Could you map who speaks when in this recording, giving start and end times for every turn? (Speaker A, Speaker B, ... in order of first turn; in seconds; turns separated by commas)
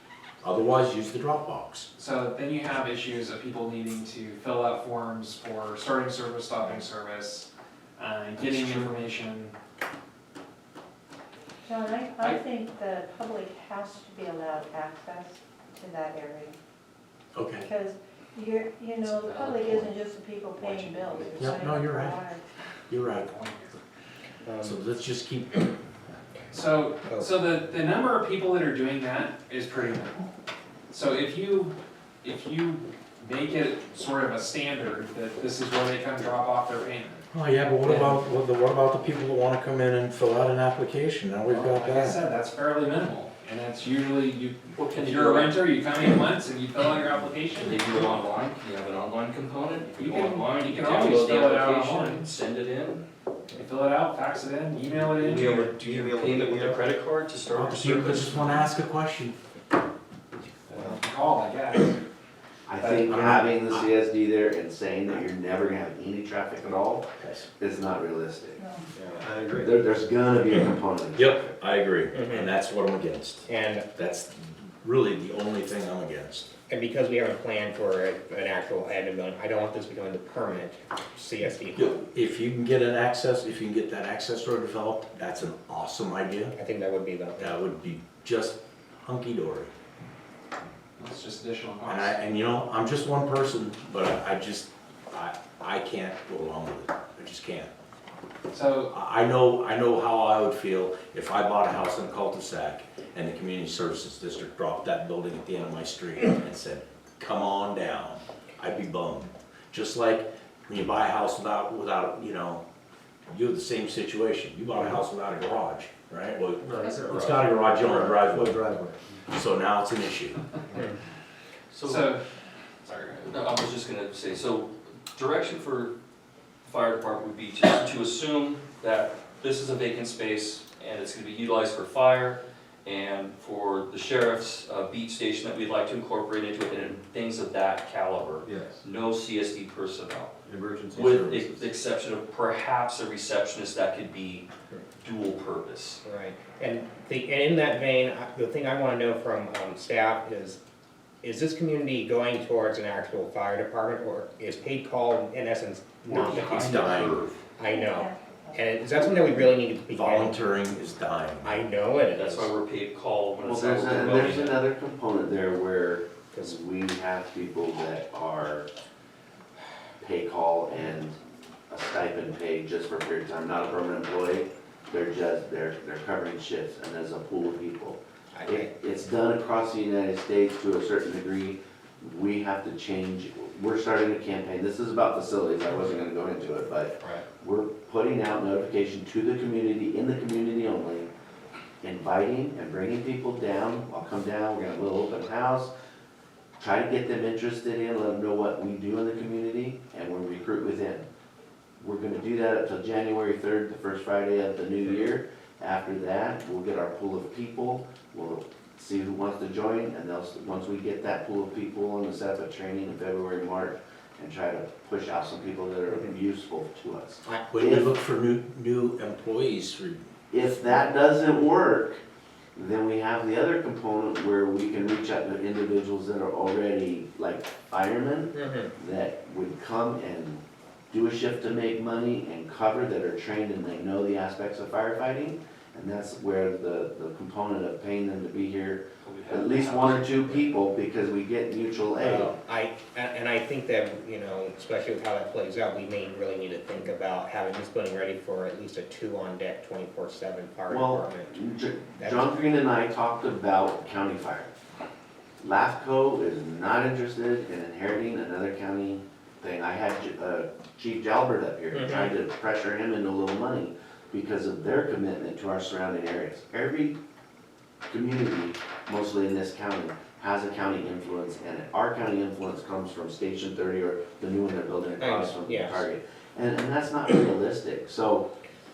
Speaker A: 0.4-1.9, Speaker B: 2.0-7.5, Speaker B: 8.0-9.5, Speaker A: 8.4-9.1, Speaker C: 11.7-16.6, Speaker B: 12.2-12.4, Speaker A: 17.4-17.7, Speaker C: 17.6-22.4, Speaker D: 19.0-19.9, Speaker D: 20.6-21.6, Speaker A: 21.4-22.2, Speaker A: 22.9-23.3, Speaker B: 23.0-23.8, Speaker E: 24.4-24.8, Speaker A: 24.6-25.7, Speaker B: 26.5-30.2, Speaker E: 27.1-27.3, Speaker B: 30.9-37.3, Speaker A: 37.3-42.2, Speaker B: 37.8-38.2, Speaker B: 41.5-47.8, Speaker D: 44.8-45.8, Speaker D: 47.6-53.0, Speaker B: 50.0-52.3, Speaker B: 53.5-56.6, Speaker F: 55.1-56.8, Speaker D: 55.1-58.7, Speaker A: 57.5-59.4, Speaker B: 60.7-62.0, Speaker G: 62.7-67.1, Speaker B: 62.8-63.1, Speaker A: 63.0-63.9, Speaker A: 67.2-67.5, Speaker G: 67.6-68.6, Speaker E: 69.0-69.3, Speaker F: 69.2-69.7, Speaker G: 69.6-71.8, Speaker A: 70.5-76.5, Speaker E: 72.1-72.5, Speaker E: 73.5-73.9, Speaker E: 76.7-82.0, Speaker A: 81.7-86.5, Speaker E: 86.5-87.6, Speaker A: 87.4-89.7, Speaker B: 91.0-92.2, Speaker A: 91.8-97.7, Speaker B: 98.5-98.9, Speaker A: 98.9-112.6, Speaker A: 113.3-118.6, Speaker F: 116.6-119.1, Speaker A: 119.3-120.4, Speaker D: 121.7-122.2, Speaker B: 121.8-122.2, Speaker D: 122.8-125.9, Speaker D: 126.6-140.3, Speaker F: 138.4-138.8, Speaker F: 140.5-141.6, Speaker A: 141.0-141.4, Speaker D: 141.0-144.5, Speaker D: 145.0-146.0, Speaker E: 146.1-150.6, Speaker E: 151.2-157.0, Speaker D: 156.1-157.4, Speaker A: 156.4-157.2, Speaker E: 157.6-160.4, Speaker C: 157.7-159.4, Speaker A: 159.9-161.6, Speaker E: 161.4-162.5, Speaker D: 162.1-164.6, Speaker G: 163.4-168.7, Speaker E: 166.3-166.6, Speaker G: 170.0-171.2, Speaker G: 171.7-191.1, Speaker E: 178.3-178.7, Speaker E: 187.0-187.2, Speaker G: 191.8-195.7, Speaker G: 196.6-201.1, Speaker G: 201.8-217.9, Speaker E: 215.9-216.2, Speaker A: 217.5-220.1, Speaker G: 220.3-222.0, Speaker G: 222.6-242.4, Speaker E: 228.3-228.7, Speaker D: 239.0-240.5, Speaker E: 242.0-251.4, Speaker G: 250.7-254.5, Speaker E: 252.0-252.4, Speaker G: 255.4-267.0, Speaker E: 261.7-262.2, Speaker G: 267.9-278.3, Speaker E: 275.0-275.8